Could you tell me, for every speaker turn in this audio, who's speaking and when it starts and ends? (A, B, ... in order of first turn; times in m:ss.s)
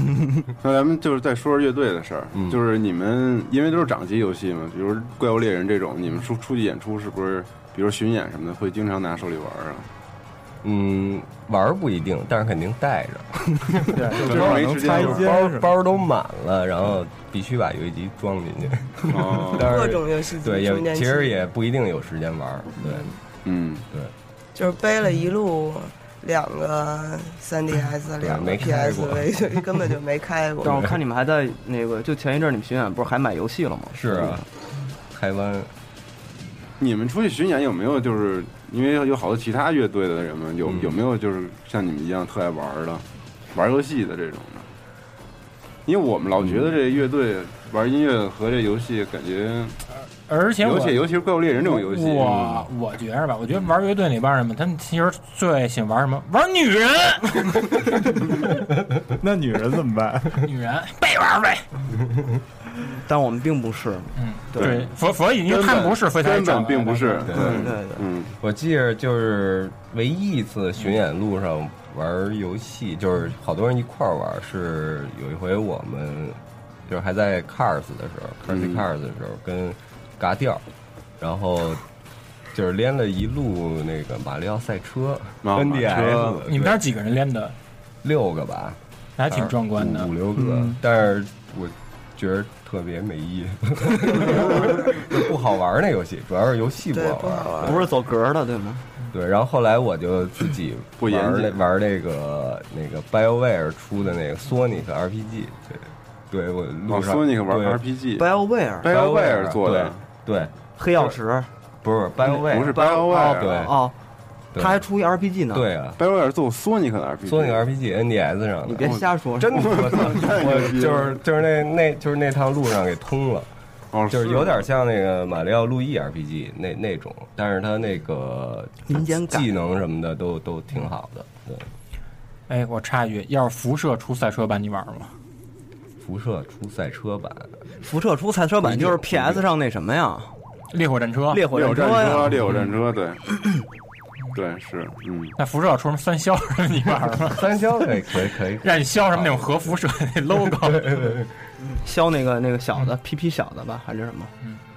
0:00.6-0:09.9 A
0:10.6-0:23.1 B
0:13.9-0:15.7 C
0:14.1-0:15.3 A
0:19.1-0:19.8 A
0:19.6-0:21.3 D
0:23.4-0:23.8 A
0:24.5-0:30.7 D
0:28.2-0:29.3 B
0:30.6-0:31.0 B
0:30.6-0:34.4 E
0:33.9-0:34.4 B
0:35.1-0:35.7 B
0:36.8-0:44.7 A
0:40.6-0:41.0 B
0:45.8-0:49.8 A
0:50.3-0:57.8 F
0:50.6-0:52.7 A
0:59.2-1:00.5 C
1:00.4-1:01.6 F
1:02.9-1:04.7 E
1:04.2-1:07.3 F
1:04.6-1:04.8 A
1:05.4-1:08.3 A
1:07.3-1:08.0 E
1:07.3-1:07.7 B
1:08.4-1:20.6 B
1:18.5-1:18.8 A
1:21.2-1:21.8 B
1:22.5-1:26.8 B
1:25.4-1:26.4 A
1:26.5-1:27.6 F
1:28.0-1:37.9 B
1:29.2-1:30.1 F
1:30.4-1:30.8 C
1:36.9-1:37.8 D
1:37.6-1:38.8 E
1:39.1-1:47.8 B
1:41.0-1:41.6 A
1:46.9-1:48.3 A
1:48.2-1:49.0 E
1:48.8-1:50.0 A
1:48.8-1:51.1 B
1:50.8-1:51.5 E
1:51.8-1:53.8 B
1:52.2-1:53.6 A
1:52.3-1:54.0 E
1:54.5-1:54.8 B
1:54.6-1:55.7 E
1:55.5-1:56.0 B
1:56.0-1:57.6 A
1:57.2-2:03.5 B
1:58.6-2:00.4 E
1:59.5-2:01.2 A
2:03.9-2:04.6 A
2:04.1-2:11.7 B
2:08.9-2:09.5 E
2:12.5-2:15.1 F
2:16.0-2:17.5 B
2:17.8-2:20.3 E
2:18.6-2:19.4 B
2:20.7-2:21.4 F
2:21.3-2:22.5 E
2:21.5-2:23.2 A
2:24.3-2:25.3 A
2:25.4-2:27.5 F
2:27.3-2:29.8 B
2:28.6-2:31.1 F
2:30.6-2:31.3 B
2:31.6-2:34.3 E